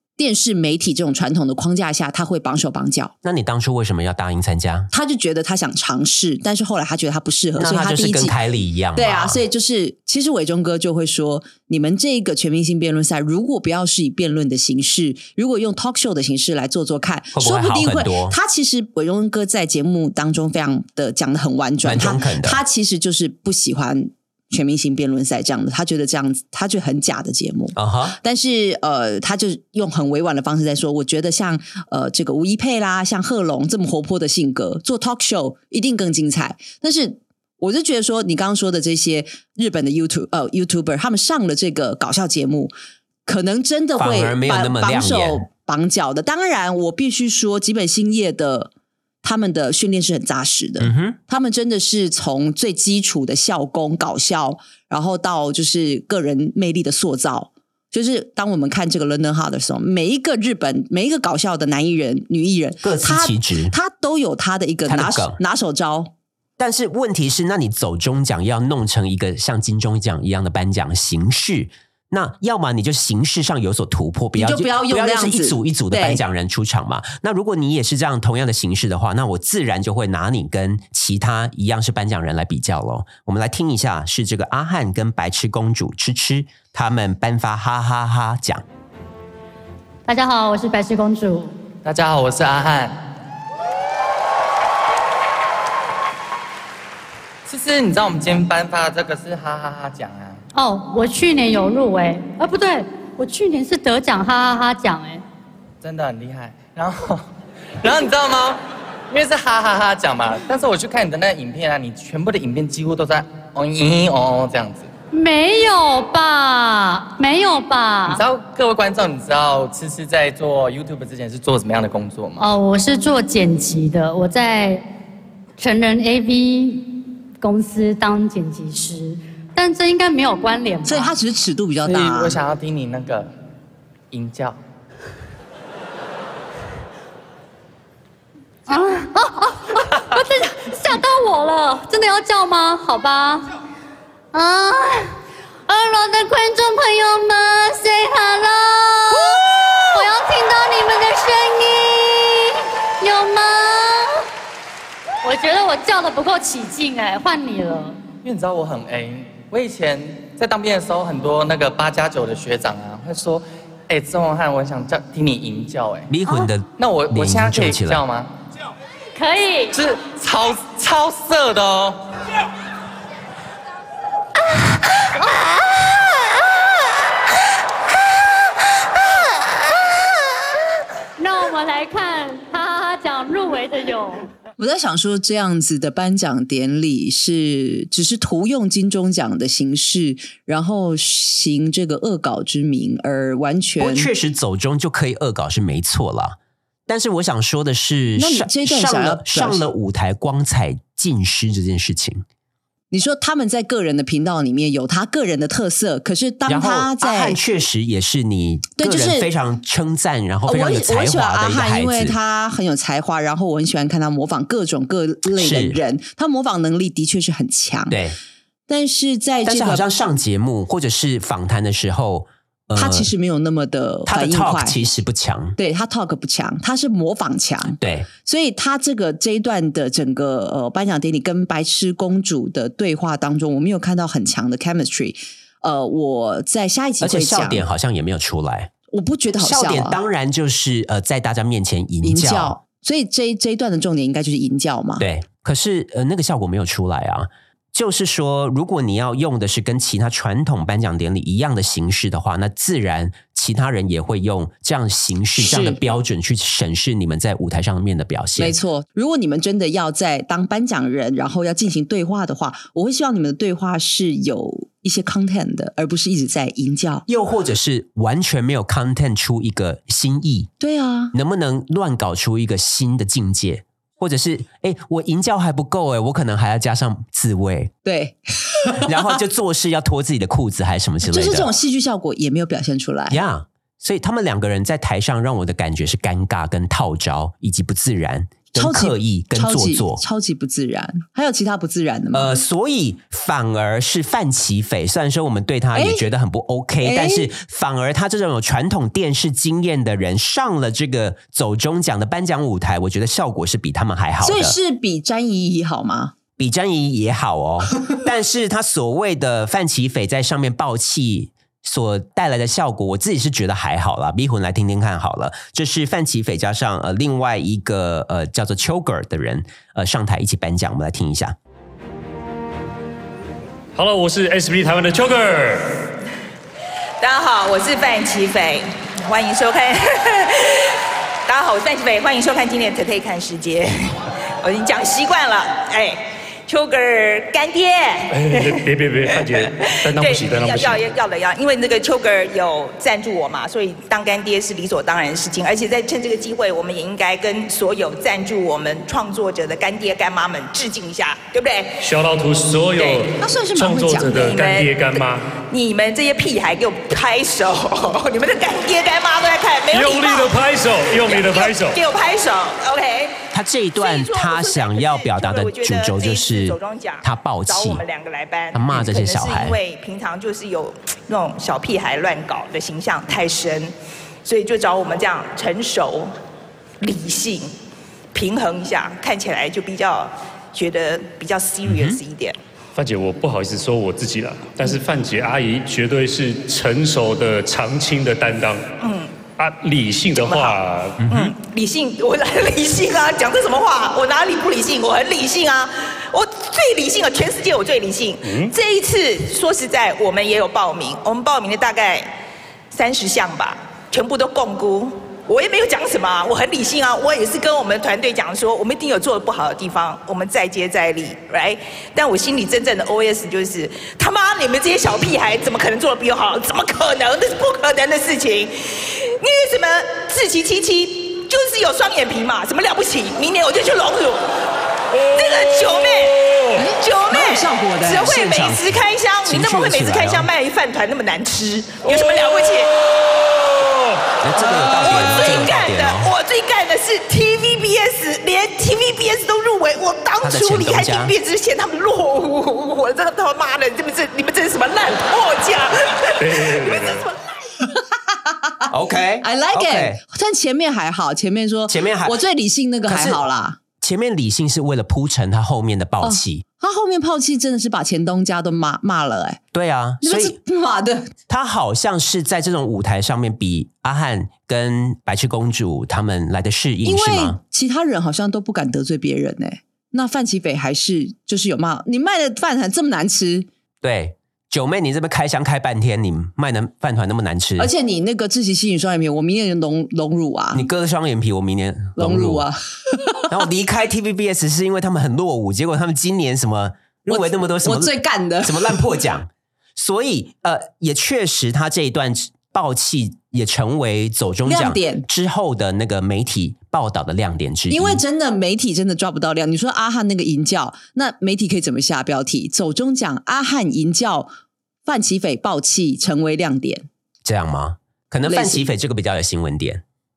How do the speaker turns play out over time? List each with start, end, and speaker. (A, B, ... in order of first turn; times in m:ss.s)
0:00.2-0:03.1 A
0:03.2-0:04.9 B
0:04.9-0:08.4 A
0:07.6-0:09.4 B
0:08.9-0:42.7 A
0:17.3-0:18.4 B
0:21.8-0:22.6 B
0:27.7-0:28.2 B
0:43.2-0:48.7 A
0:44.0-0:45.4 B
0:49.2-1:06.1 A
0:50.8-0:51.2 B
1:02.8-1:03.7 B
1:04.8-1:05.4 B
1:06.6-1:28.6 B
1:14.4-1:16.2 A
1:30.1-1:31.5 C
1:31.8-1:33.0 D
1:37.4-1:40.4 D
1:40.5-1:45.2 C
1:45.8-1:47.2 D
1:47.8-1:54.9 D
1:55.1-1:58.2 C
1:58.1-2:02.4 D
2:02.4-2:04.8 C
2:05.6-2:11.1 C
2:10.8-2:12.4 A
2:11.8-2:13.3 D
2:14.1-2:14.6 D
2:18.7-2:23.5 C
2:24.3-2:25.2 C
2:25.7-2:34.2 C
2:35.2-2:38.0 C
2:38.2-2:46.1 D
2:46.1-2:48.0 B
2:46.7-2:48.3 D
2:49.1-2:49.7 C
2:49.7-2:52.0 D
3:01.2-3:04.3 C
3:04.6-3:14.1 A
3:13.8-3:22.2 B
3:18.2-3:19.7 A
3:22.9-3:27.4 A
3:26.4-3:32.1 B
3:28.8-3:29.3 A
3:30.4-3:38.0 A
3:35.4-3:35.8 B
3:37.9-3:38.2 B
3:38.7-3:39.8 A
3:39.4-3:43.1 B
3:42.7-3:44.8 A
3:44.0-3:45.6 B
3:45.6-3:57.6 A
3:47.8-3:48.1 B
3:57.0-3:58.7 B
3:58.9-4:00.0 A
3:59.4-4:02.6 B
4:02.0-4:05.0 A
4:05.0-4:18.5 B
4:15.4-4:15.8 A
4:18.4-4:27.0 A
4:27.1-4:30.5 B
4:30.6-4:31.1 A
4:31.1-4:37.7 B
4:37.8-4:38.9 A
4:38.8-4:41.5 B
4:41.0-4:43.2 A
4:43.1-4:50.0 B
4:48.5-4:52.4 A
4:52.1-5:04.5 B
4:55.7-4:56.0 A
4:56.8-4:57.3 A
5:04.2-5:06.1 A
5:06.4-5:21.4 B
5:23.8-5:25.8 E
5:27.0-5:30.8 F
5:31.3-5:33.7 F
5:34.4-5:51.8 F
5:38.1-5:40.9 E
5:51.8-5:55.3 E
5:52.7-5:53.1 F
5:53.2-5:54.4 A
5:54.2-6:03.2 F
5:59.7-6:01.8 E
6:03.3-6:07.8 B
6:03.8-6:13.7 F
6:08.5-6:09.6 B
6:14.2-6:16.1 F
6:16.8-6:17.5 F
6:18.1-6:22.4 F
6:21.6-6:22.0 B
6:22.8-6:28.6 E
6:28.8-6:29.1 F
6:29.4-6:31.1 E
6:30.2-6:42.1 F
6:31.0-6:31.3 B
6:38.2-6:38.5 E
6:42.7-7:04.3 F
7:05.1-7:12.8 F
7:06.6-7:08.1 A
7:08.0-7:10.3 B
7:14.2-7:16.1 B
7:14.8-7:27.1 F
7:20.2-7:21.1 B
7:26.2-7:27.1 E
7:27.7-7:28.7 A
7:28.7-7:30.0 B
7:29.2-7:33.6 A
7:31.7-7:32.2 B
7:32.9-7:33.2 B
7:33.8-7:36.4 B
7:36.0-7:39.4 A
7:39.5-7:40.4 B
7:40.0-7:41.1 A
7:41.3-7:47.4 B
7:46.8-7:53.5 A
7:53.8-7:57.7 B
7:57.6-8:00.6 A
8:00.5-8:02.4 B
8:02.0-8:03.2 A
8:03.3-8:18.0 B
8:07.1-8:08.8 A
8:14.4-8:15.0 A
8:17.7-8:24.3 A
8:24.8-8:26.9 A
8:27.2-8:29.8 B
8:28.2-8:28.6 A